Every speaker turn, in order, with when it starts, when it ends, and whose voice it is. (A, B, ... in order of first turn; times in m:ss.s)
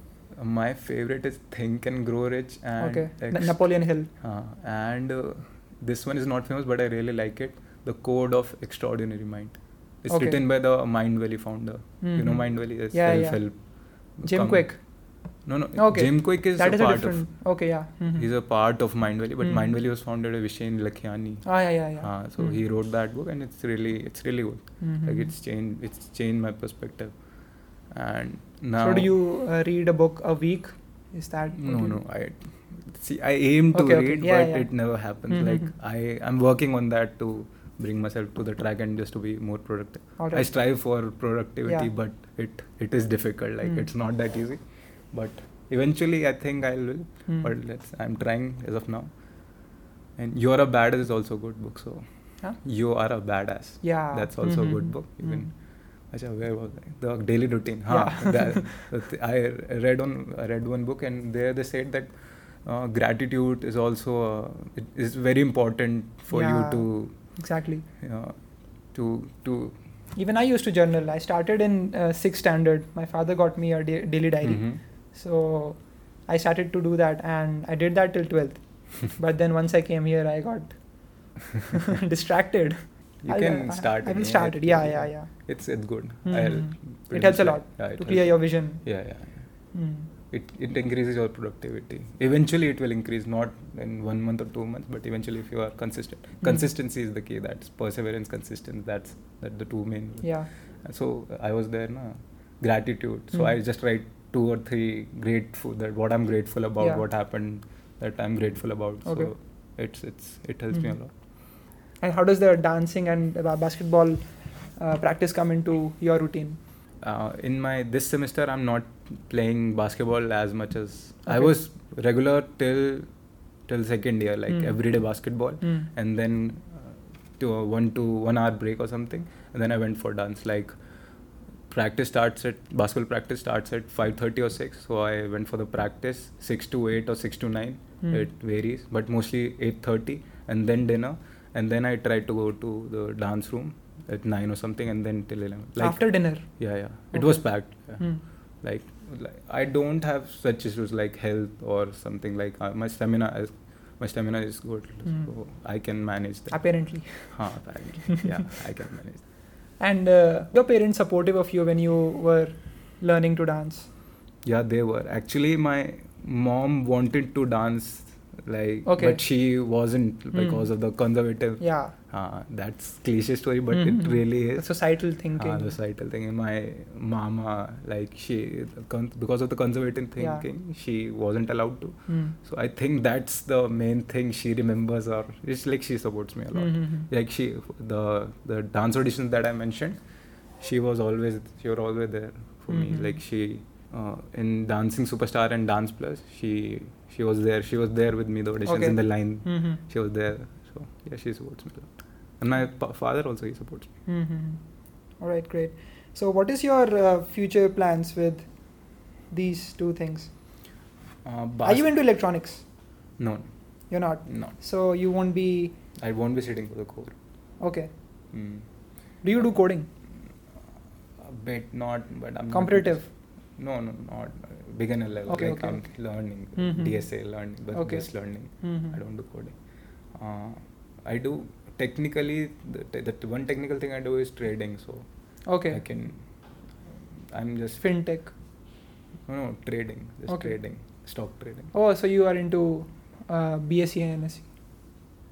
0:00.3-0:29.2 A
0:02.8-0:04.1 B
0:10.1-0:10.5 B
0:12.0-0:19.8 B
0:21.4-0:22.7 B
0:24.8-0:25.3 B
0:28.8-0:32.0 B
0:31.5-1:09.8 A
0:33.7-0:35.7 B
0:40.2-0:40.6 B
0:41.6-0:41.9 B
0:43.6-0:43.9 B
0:47.3-0:47.5 B
0:53.8-0:55.5 B
0:57.9-0:58.9 B
1:06.3-1:07.8 B
1:10.1-1:29.1 B
1:14.4-1:14.8 A
1:23.2-1:51.4 A
1:29.7-1:30.1 B
1:36.4-1:36.7 B
1:40.2-1:40.5 B
1:43.3-1:43.6 B
1:46.8-1:47.1 B
1:49.0-1:49.3 B
1:50.7-1:51.0 B
1:52.0-1:56.6 B
1:57.0-2:39.3 A
2:01.2-2:01.6 B
2:04.5-2:05.9 B
2:18.0-2:18.3 B
2:25.8-2:28.2 B
2:35.0-2:35.4 B
2:36.5-2:37.8 B
2:39.8-2:43.9 B
2:44.4-3:23.9 A
2:48.8-2:49.5 B
2:50.3-2:51.9 B
2:53.7-2:55.8 B
3:00.2-3:00.4 B
3:02.1-3:02.4 B
3:06.5-3:07.1 B
3:12.7-3:13.2 B
3:18.6-3:19.8 B
3:24.1-3:30.4 B
3:31.2-3:34.6 A
3:31.6-3:32.7 B
3:33.9-3:35.8 B
3:36.0-3:37.6 A
3:37.6-3:38.5 B
3:38.3-3:39.5 A
3:39.2-3:39.9 B
3:41.2-3:58.6 A
3:42.5-3:43.1 B
3:45.2-3:49.0 B
3:55.4-3:55.8 B
3:57.8-3:58.3 B
3:59.2-4:01.7 A
4:00.3-4:01.1 B
4:01.7-4:04.9 B